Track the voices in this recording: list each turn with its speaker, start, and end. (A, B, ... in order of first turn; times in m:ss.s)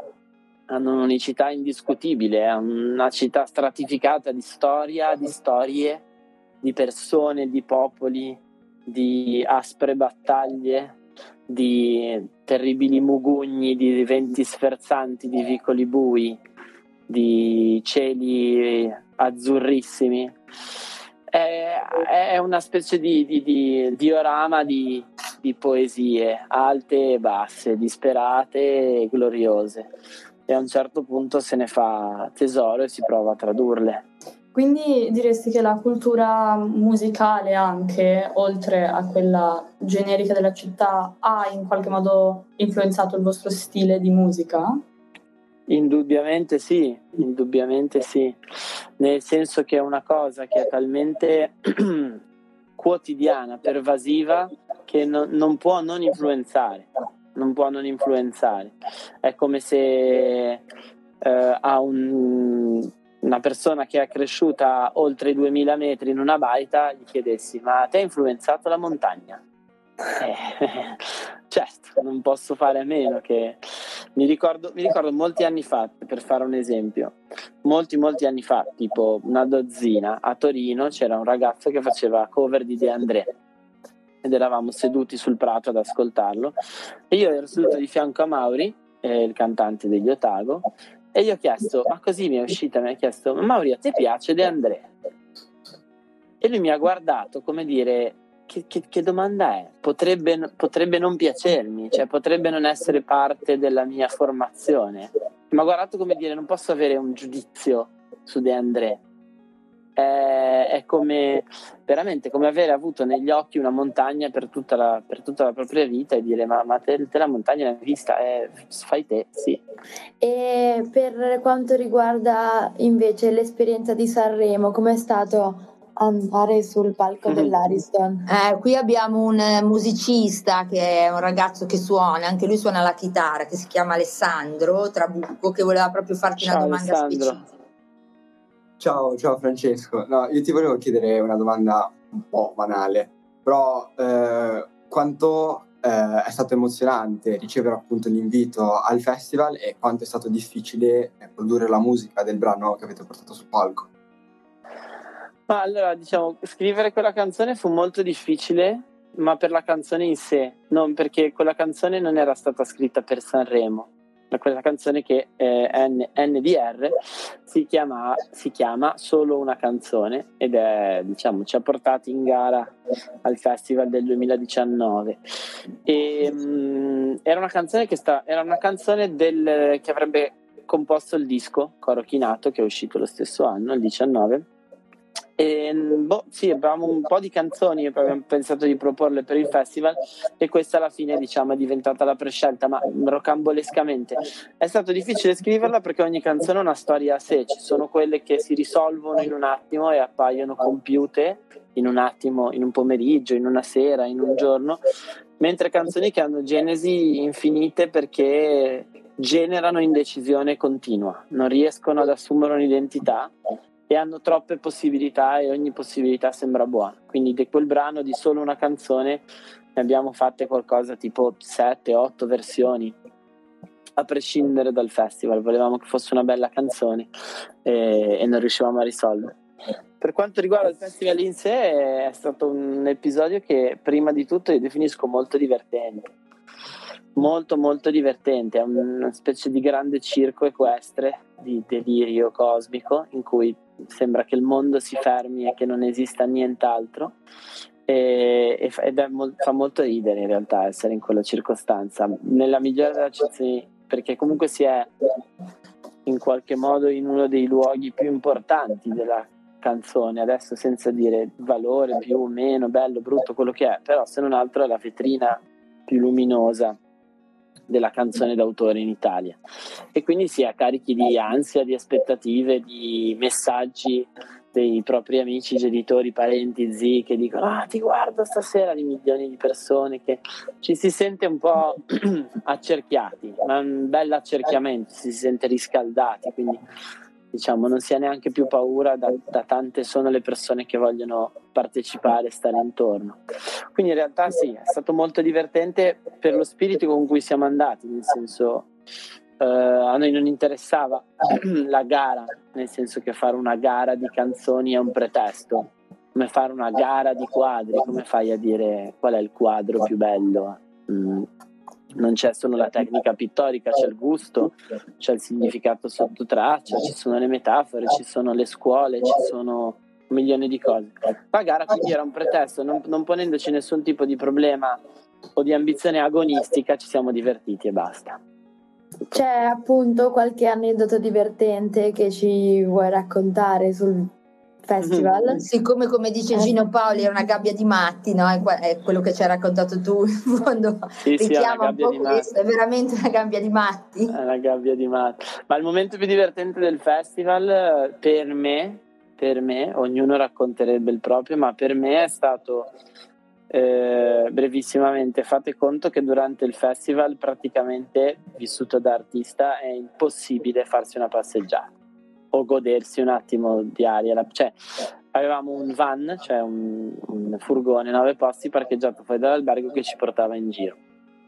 0:00.7-0:06.0 A
0:06.6-0:11.0 A
0:11.5-0:16.4 A
0:17.1-0:20.4 A
0:21.3-0:29.9 A
0:30.5-0:34.0 A
0:34.5-0:44.8 B
0:45.7-0:48.4 A
0:49.0-0:52.2 A
0:52.8-1:00.6 A
1:01.2-1:09.4 A
1:10.1-1:23.3 A
1:24.2-1:26.6 A
1:27.1-1:34.9 A
1:36.4-1:49.0 A
1:50.0-1:59.6 A
2:00.2-2:08.3 C
2:07.3-2:07.6 A
2:08.3-2:17.5 D
2:16.4-2:17.4 A
2:18.8-2:33.9 E
2:35.5-2:52.7 A
2:53.2-2:55.2 A
2:55.8-3:04.5 A
3:05.4-3:24.8 A
3:25.4-3:33.3 A
3:33.9-3:39.2 A
3:39.8-3:43.0 A
3:44.0-3:47.1 A
3:47.6-3:49.4 A
3:50.0-3:56.1 A
3:57.2-4:07.1 A
4:07.9-4:14.9 A
4:16.1-4:26.8 A
4:27.7-4:29.4 A
4:29.9-4:46.6 A
4:47.3-4:53.2 A
4:53.7-4:58.7 A
4:59.4-5:11.3 A
5:12.0-5:24.8 A
5:25.4-5:28.2 A
5:29.1-5:34.1 C
5:34.6-5:35.4 C
5:34.8-5:35.2 A
5:35.4-5:44.1 D
5:36.3-5:36.6 C
5:41.0-5:42.3 A
5:44.1-5:52.7 A
5:53.5-6:01.7 A
6:02.3-6:04.6 A
6:05.1-6:10.8 A